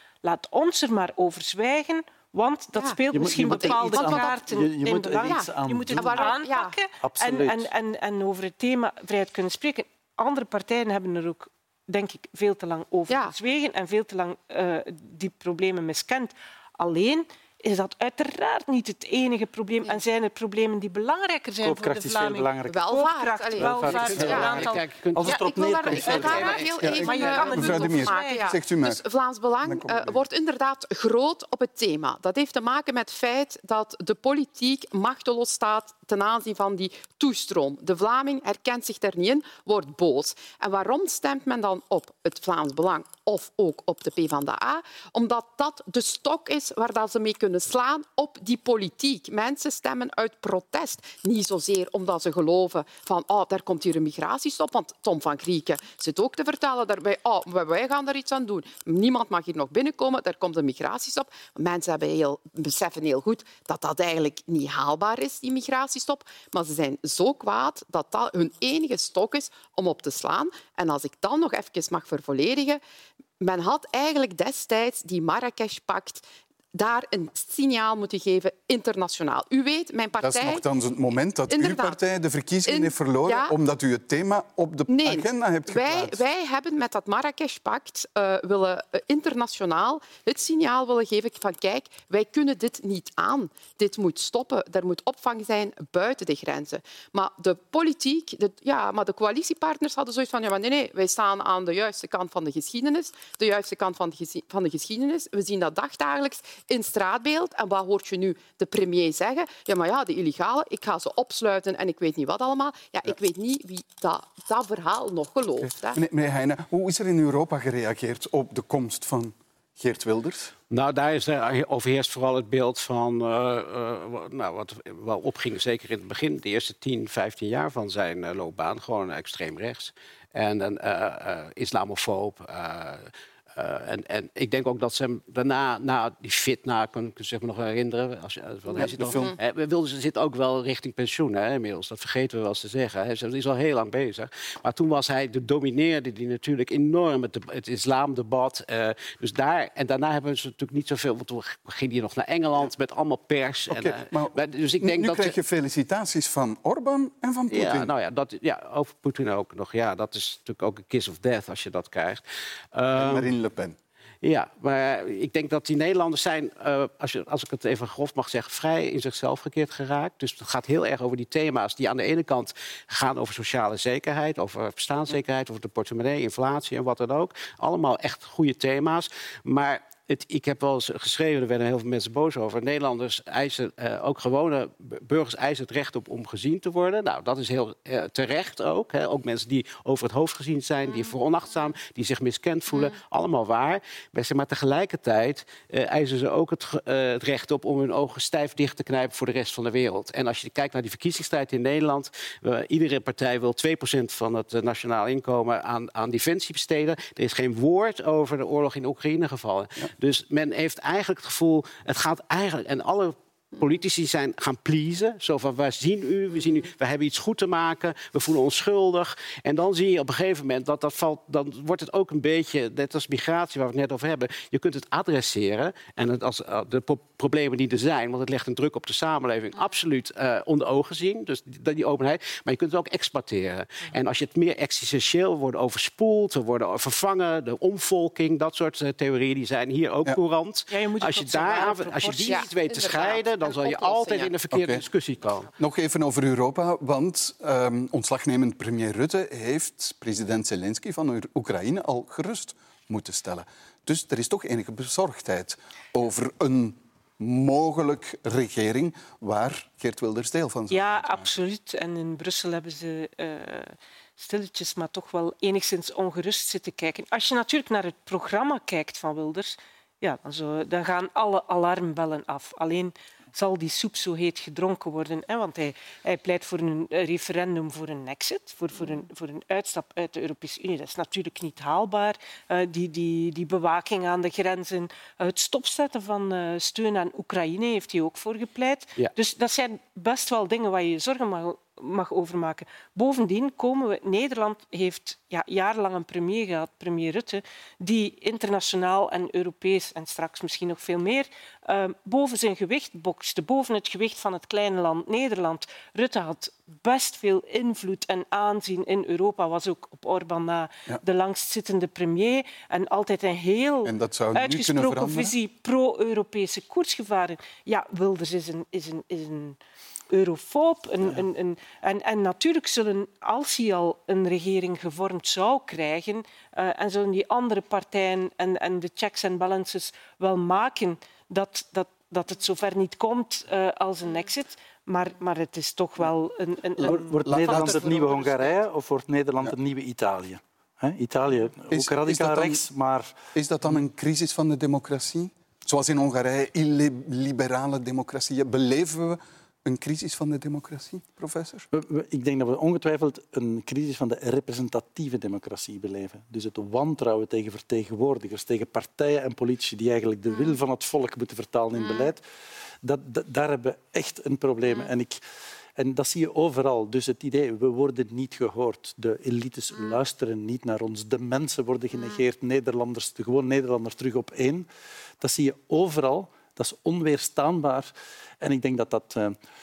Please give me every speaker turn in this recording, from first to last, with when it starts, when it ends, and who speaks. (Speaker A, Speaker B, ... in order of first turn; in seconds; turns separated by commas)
Speaker A: 0.2-25.4, Speaker B: 2.8-4.4, Speaker C: 3.1-6.4, Speaker B: 5.3-6.8, Speaker C: 7.0-7.7, Speaker B: 13.1-13.3, Speaker C: 21.6-22.9, Speaker B: 22.7-24.7, Speaker C: 23.6-26.7, Speaker D: 24.0-26.7, Speaker B: 25.2-72.8, Speaker A: 26.1-28.5, Speaker E: 26.8-29.0, Speaker E: 29.6-30.2, Speaker B: 73.4-76.2, Speaker B: 76.7-80.6, Speaker E: 80.2-86.2, Speaker B: 81.5-82.0, Speaker B: 82.7-83.5, Speaker B: 84.9-116.0, Speaker E: 115.6-120.5, Speaker D: 120.7-155.4, Speaker B: 138.7-139.4, Speaker E: 138.8-139.3, Speaker E: 153.7-157.9, Speaker D: 157.5-162.2, Speaker D: 162.7-163.3, Speaker E: 162.9-163.8, Speaker D: 164.2-245.5, Speaker B: 190.8-191.6, Speaker B: 192.7-193.0, Speaker A: 240.7-242.5, Speaker B: 242.3-244.3, Speaker E: 244.5-244.8, Speaker E: 245.6-261.3, Speaker A: 260.7-319.6, Speaker E: 313.9-315.4, Speaker A: 320.1-338.6, Speaker E: 336.8-338.1, Speaker C: 336.8-343.1, Speaker E: 341.7-342.6, Speaker E: 343.4-351.7, Speaker C: 351.7-362.2, Speaker B: 360.3-360.6, Speaker B: 361.7-362.1, Speaker C: 362.8-365.2, Speaker B: 364.6-364.9, Speaker C: 365.8-374.7, Speaker B: 371.9-372.2, Speaker C: 375.2-379.4